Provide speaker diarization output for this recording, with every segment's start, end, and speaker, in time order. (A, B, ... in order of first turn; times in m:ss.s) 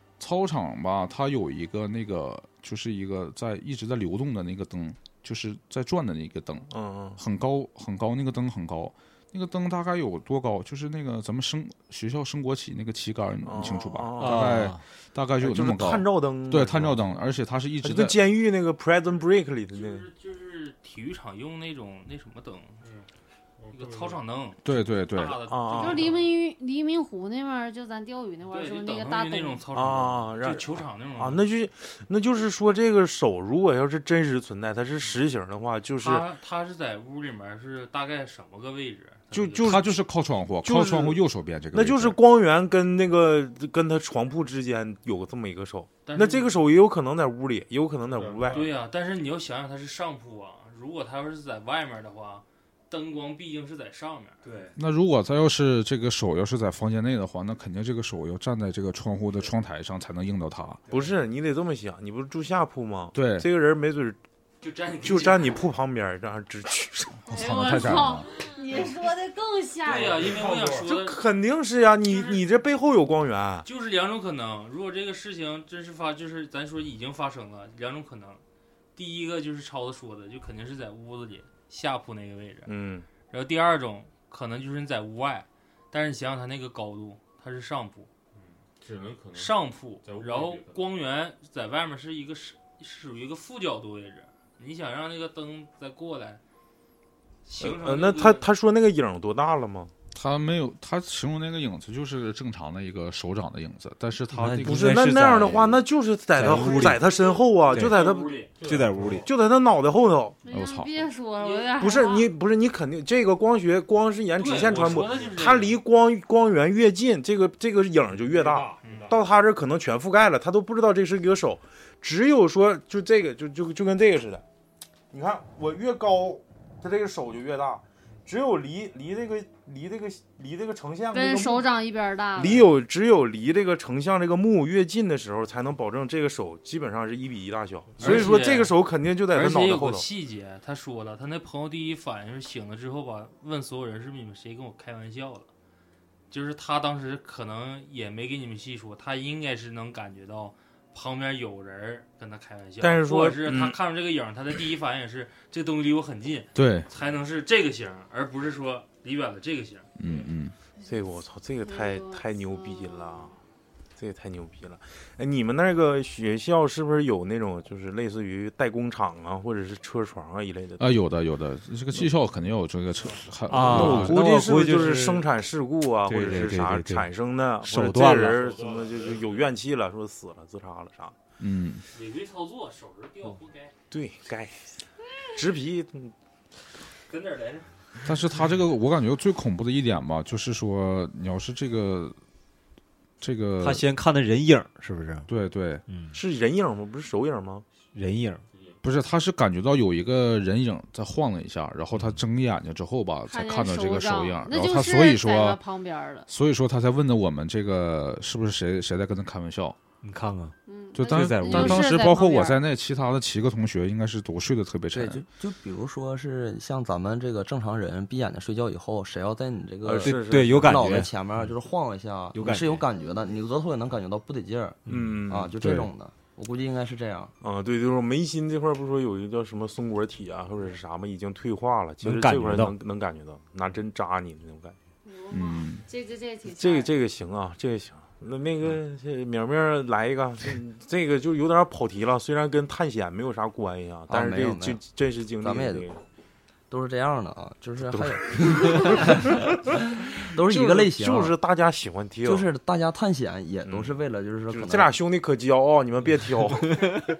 0:00.2-0:18.2 A
0:06.7-0:07.2 B
0:13.4-0:14.7 B
0:14.2-0:14.8 C
0:15.4-0:17.1 B
0:17.8-0:20.1 B
0:19.7-0:22.8 D
0:23.6-0:24.2 E
0:23.7-0:26.3 D
0:24.6-0:25.4 A
0:25.5-0:26.2 B
0:25.8-0:29.6 F
0:28.5-0:31.5 D
0:29.7-0:36.3 B
0:36.0-0:40.0 D
0:39.3-0:39.8 B
0:39.6-0:42.2 A
0:40.6-0:41.2 B
0:41.7-0:48.7 B
0:46.0-0:46.6 D
0:48.1-0:48.7 E
0:48.5-0:54.4 D
0:54.4-0:54.7 E
0:54.8-1:00.8 A
1:00.9-1:04.2 B
1:03.1-1:03.5 A
1:04.6-1:05.6 D
1:05.0-1:07.2 B
1:07.3-1:08.3 A
1:07.3-1:10.3 F
1:09.8-1:11.2 D
1:09.9-1:10.9 E
1:10.8-1:13.6 B
1:12.0-1:12.4 D
1:13.6-1:18.4 D
1:19.0-1:22.7 D
1:22.7-1:23.1 B
1:23.3-1:28.1 D
1:28.3-1:30.9 E
1:29.3-1:36.4 D
1:37.4-1:38.5 D
1:37.6-1:39.9 B
1:40.1-1:45.1 A
1:44.3-1:47.0 C
1:44.6-1:48.4 B
1:46.4-1:48.6 D
1:47.7-1:48.0 C
1:48.6-1:49.3 E
1:48.6-1:49.3 C
1:49.0-1:50.4 B
1:50.4-1:52.3 F
1:50.5-1:51.1 A
1:51.4-1:51.8 D
1:51.8-2:04.4 B
1:54.3-1:55.8 D
1:54.8-1:55.2 E
1:58.3-1:59.2 E
1:58.8-1:59.2 D
2:05.1-2:11.7 B
2:11.1-2:12.7 F
2:12.3-2:20.1 B
2:18.0-2:18.2 E
2:18.0-2:18.8 D
2:19.3-2:25.5 D
2:26.3-2:40.2 D
2:32.8-2:33.8 B
2:36.5-2:36.9 A
2:40.0-2:40.5 A
2:40.8-2:43.3 B
2:41.6-2:43.3 F
2:44.0-2:50.9 B
2:50.8-2:54.2 A
2:53.5-2:55.3 C
2:53.7-3:01.2 B
2:56.1-2:57.1 C
2:57.6-2:58.4 C
2:58.3-2:59.5 E
3:01.4-3:01.8 A
3:01.9-3:03.7 D
3:03.9-3:06.1 B
3:07.1-3:07.7 D
3:08.0-3:12.2 A
3:13.2-3:13.8 A
3:13.6-3:15.3 C
3:15.3-3:15.8 A
3:15.9-3:16.2 C
3:16.1-3:17.6 B
3:17.9-3:18.4 C
3:18.5-3:18.8 E
3:18.8-3:25.6 A
3:21.9-3:22.2 C
3:23.3-3:26.3 F
3:26.3-3:29.8 A
3:30.0-3:31.9 C
3:30.7-3:32.6 F
3:30.9-3:35.2 A
3:34.9-3:47.3 G
3:39.8-3:41.0 B
3:40.0-3:41.1 C
3:42.3-3:42.8 C
3:44.9-3:45.2 C
3:44.9-3:45.5 B
3:45.6-3:45.9 A
3:47.4-3:54.8 B
3:52.0-3:52.7 C
3:55.0-3:56.9 F
3:55.3-3:55.8 A
3:56.4-4:06.0 B
4:04.1-4:04.8 G
4:05.4-4:05.9 G
4:06.7-4:11.3 G
4:07.9-4:12.5 B
4:12.2-4:14.9 G
4:13.7-4:17.0 B